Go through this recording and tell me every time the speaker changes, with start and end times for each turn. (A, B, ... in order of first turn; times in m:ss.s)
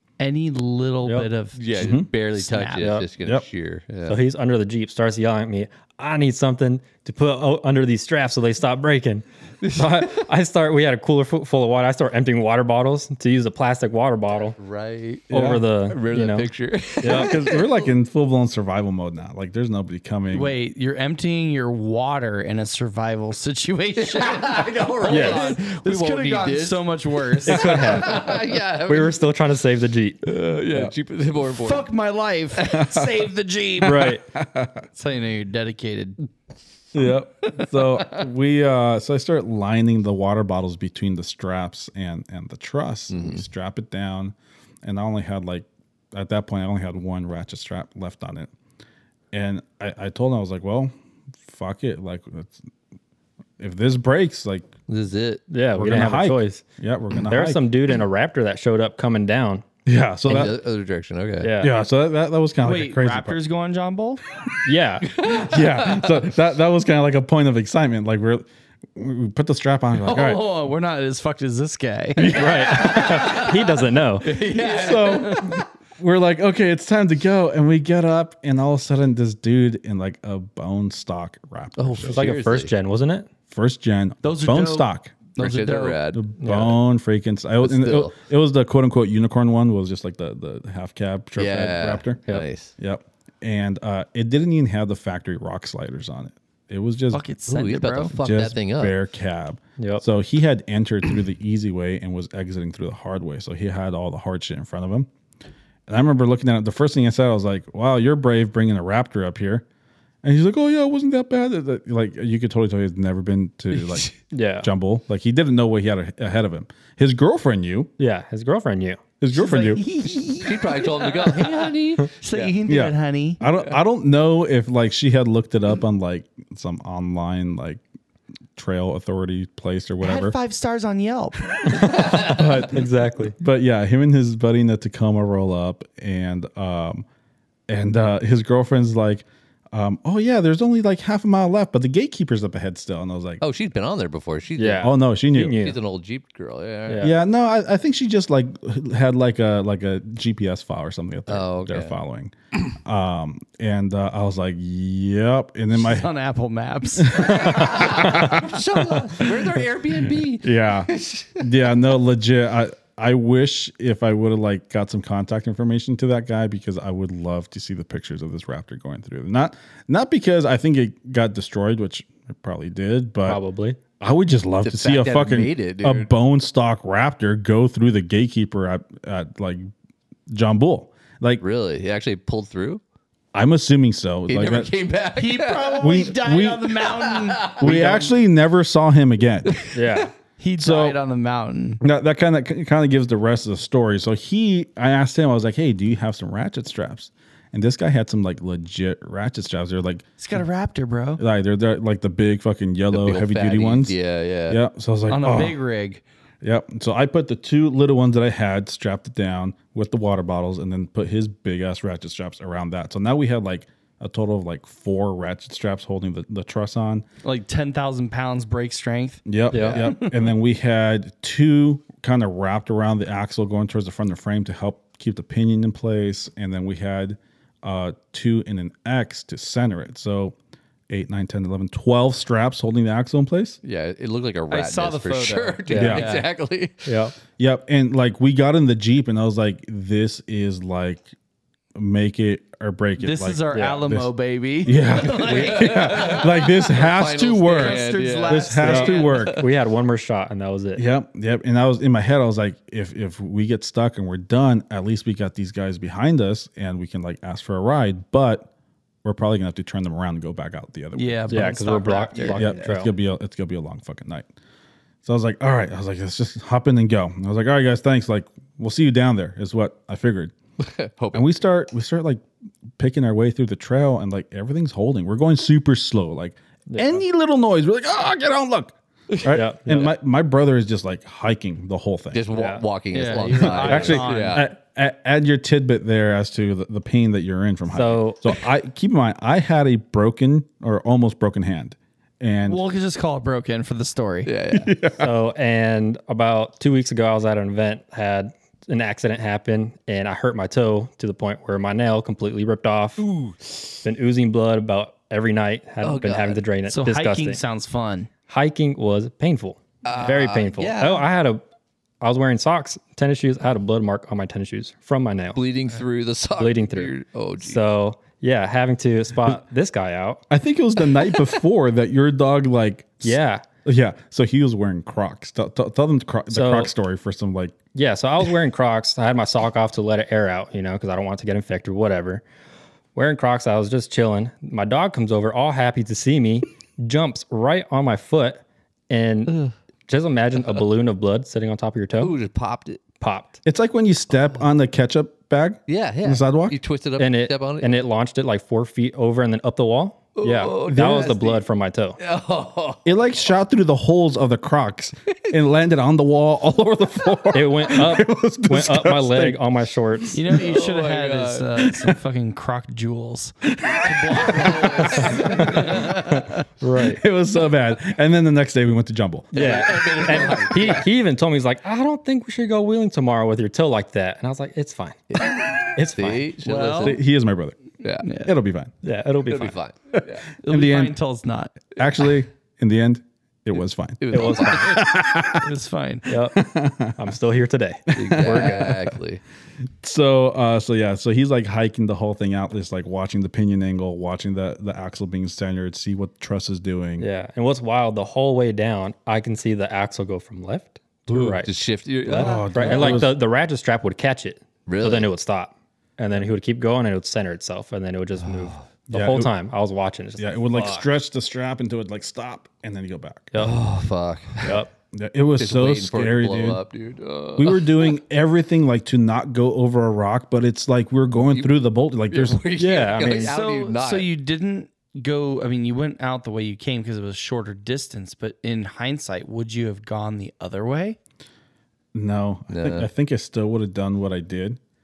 0:00.2-0:03.0 A
0:01.0-0:01.3 B
0:01.5-0:04.2 C
0:01.8-0:02.1 D
0:02.8-0:03.0 B
0:04.0-0:14.6 B
0:14.6-0:15.3 C
0:15.3-0:15.6 D
0:15.3-0:16.5 B
0:15.8-0:17.9 C
0:17.0-0:17.3 B
0:17.0-0:20.5 D
0:20.3-0:28.1 A
0:24.0-0:29.3 C
0:25.1-0:25.5 B
0:27.4-0:30.2 B
0:30.2-0:31.9 C
0:31.5-0:34.2 A
0:32.6-0:33.2 D
0:33.8-0:34.2 B
0:33.8-0:34.8 D
0:34.9-0:36.3 A
0:36.9-0:48.5 D
0:43.1-0:43.4 C
0:49.3-0:50.9 D
0:51.4-0:52.6 D
0:53.6-0:54.7 D
0:54.9-0:55.4 C
0:55.5-0:56.6 B
0:55.8-0:57.6 D
0:57.3-0:59.6 B
0:59.8-1:00.6 D
1:00.2-1:01.5 C
1:01.4-1:01.7 B
1:01.6-1:03.4 D
1:02.6-1:04.2 A
1:04.6-1:05.1 B
1:05.1-1:10.4 D
1:05.2-1:06.0 C
1:10.0-1:13.5 A
1:12.2-1:13.3 D
1:12.3-1:14.3 B
1:12.6-1:13.6 C
1:14.2-1:15.6 C
1:14.2-1:15.6 A
1:14.7-1:22.3 D
1:21.8-1:22.7 C
1:22.1-1:23.3 B
1:23.5-1:25.1 D
1:24.2-1:26.2 A
1:25.4-1:26.2 C
1:26.1-1:32.2 D
1:26.4-1:26.8 B
1:27.6-1:28.1 C
1:31.4-1:32.7 C
1:32.8-1:37.2 D
1:37.1-1:38.1 A
1:37.4-1:39.0 C
1:38.1-1:45.1 D
1:39.8-1:40.0 B
1:45.9-1:49.6 D
1:50.2-1:57.9 D
1:53.7-1:54.1 C
1:54.3-1:54.7 B
1:58.0-1:59.0 B
1:59.2-1:59.8 D
1:59.3-2:03.4 A
2:00.1-2:02.5 C
2:02.6-2:07.8 D
2:08.6-2:10.4 D
2:10.0-2:12.1 A
2:11.6-2:13.3 B
2:11.8-2:17.0 D
2:17.7-2:23.4 D
2:23.4-2:27.1 C
2:24.6-2:25.8 B
2:24.8-2:25.6 D
2:26.9-2:27.1 B
2:27.0-2:36.1 D
2:31.3-2:32.0 C
2:35.7-2:37.9 A
2:37.0-2:53.4 D
2:37.4-2:41.5 C
2:53.2-2:53.8 B
2:54.0-2:59.7 D
2:54.6-2:56.1 C
3:00.3-3:01.4 D
3:01.4-3:02.8 C
3:03.3-3:04.7 D
3:04.3-3:06.0 C
3:05.2-3:08.1 A
3:05.8-3:06.8 D
3:06.8-3:07.7 C
3:07.6-3:09.6 D
3:09.5-3:09.8 C
3:09.7-3:10.1 B
3:10.4-3:11.8 A
3:10.6-3:11.0 D
3:11.8-3:20.1 D
3:20.2-3:21.2 A
3:21.2-3:23.9 D
3:22.9-3:24.6 C
3:24.5-3:25.6 D
3:25.1-3:26.0 A
3:26.4-3:37.0 D
3:37.2-3:40.3 A
3:39.2-3:50.4 D
3:39.5-3:39.8 B
3:39.6-3:39.8 C
3:50.9-3:53.6 D
3:53.6-3:56.9 C
3:54.5-3:56.3 A
3:55.7-3:56.0 B
3:55.7-3:56.1 D
3:56.8-3:57.1 B
3:57.4-4:01.1 D
4:01.7-4:04.1 D
4:03.0-4:06.8 A
4:03.5-4:03.8 B
4:04.6-4:09.4 D
4:05.0-4:09.4 C
4:07.4-4:09.2 A
4:08.6-4:10.8 B
4:10.8-4:18.5 D
4:19.0-4:24.3 D
4:20.9-4:22.5 A
4:21.3-4:22.9 B
4:22.1-4:22.4 C
4:25.0-4:30.3 D
4:30.6-4:31.2 C
4:31.1-4:32.2 D
4:32.8-4:42.2 D
4:36.7-4:37.0 B
4:39.1-4:39.4 C
4:39.3-4:39.9 B
4:42.1-4:44.5 C
4:42.3-4:42.6 B
4:42.9-4:44.5 A
4:43.3-4:52.6 D
4:47.7-4:48.2 B
4:52.4-4:54.3 A
4:54.2-4:54.7 C
4:54.5-4:55.2 D
4:55.0-5:03.0 B
5:03.0-5:03.4 C
5:03.8-5:07.4 B
5:05.8-5:06.4 C
5:06.7-5:08.1 A
5:08.3-5:11.4 B
5:09.8-5:11.0 C
5:12.0-5:15.4 B
5:15.3-5:17.7 C
5:16.4-5:20.2 B
5:20.3-5:27.5 D
5:23.0-5:23.4 B
5:26.3-5:26.7 B
5:27.7-5:32.2 B
5:32.9-5:42.1 B
5:42.0-5:42.8 C
5:43.0-5:43.4 B
5:43.4-5:46.6 D
5:45.7-5:47.7 C
5:47.0-5:52.0 B
5:50.2-5:51.4 C
5:50.6-5:51.2 D
5:52.0-5:52.9 C
5:52.8-5:59.4 D
5:57.3-6:00.2 B
6:00.0-6:00.4 D
6:00.1-6:06.4 A
6:00.3-6:01.6 C
6:01.6-6:02.0 D
6:03.5-6:09.9 D
6:04.2-6:06.0 C
6:06.6-6:07.0 B
6:09.3-6:10.9 C
6:09.3-6:15.0 B
6:15.1-6:17.0 C
6:15.7-6:16.3 B
6:16.4-6:17.0 A
6:16.8-6:17.6 D
6:17.8-6:18.1 C
6:18.0-6:18.3 A
6:18.1-6:18.7 D
6:18.8-6:19.6 B
6:19.2-6:20.3 C
6:19.9-6:21.0 D
6:20.4-6:21.6 A
6:21.7-6:25.5 D
6:24.0-6:24.8 C
6:24.1-6:24.8 B
6:25.4-6:26.1 A
6:26.1-6:28.8 B
6:26.3-6:27.0 D
6:27.9-6:29.0 D
6:27.9-6:29.2 C
6:29.8-6:37.0 D
6:37.0-6:41.5 B
6:41.1-6:43.1 C
6:42.1-6:50.9 B
6:42.1-6:43.2 D
6:44.6-6:45.1 C
6:48.2-6:48.6 C
6:48.9-6:49.3 D
6:50.2-6:53.3 D
6:53.3-6:53.6 B
6:53.3-6:54.6 C
6:54.4-6:54.7 B
6:54.4-6:56.6 D
6:55.4-6:58.0 C
6:57.4-7:02.4 D
7:01.3-7:04.1 C
7:02.6-7:03.3 B
7:03.0-7:11.0 A
7:11.9-7:14.6 D
7:12.5-7:12.9 C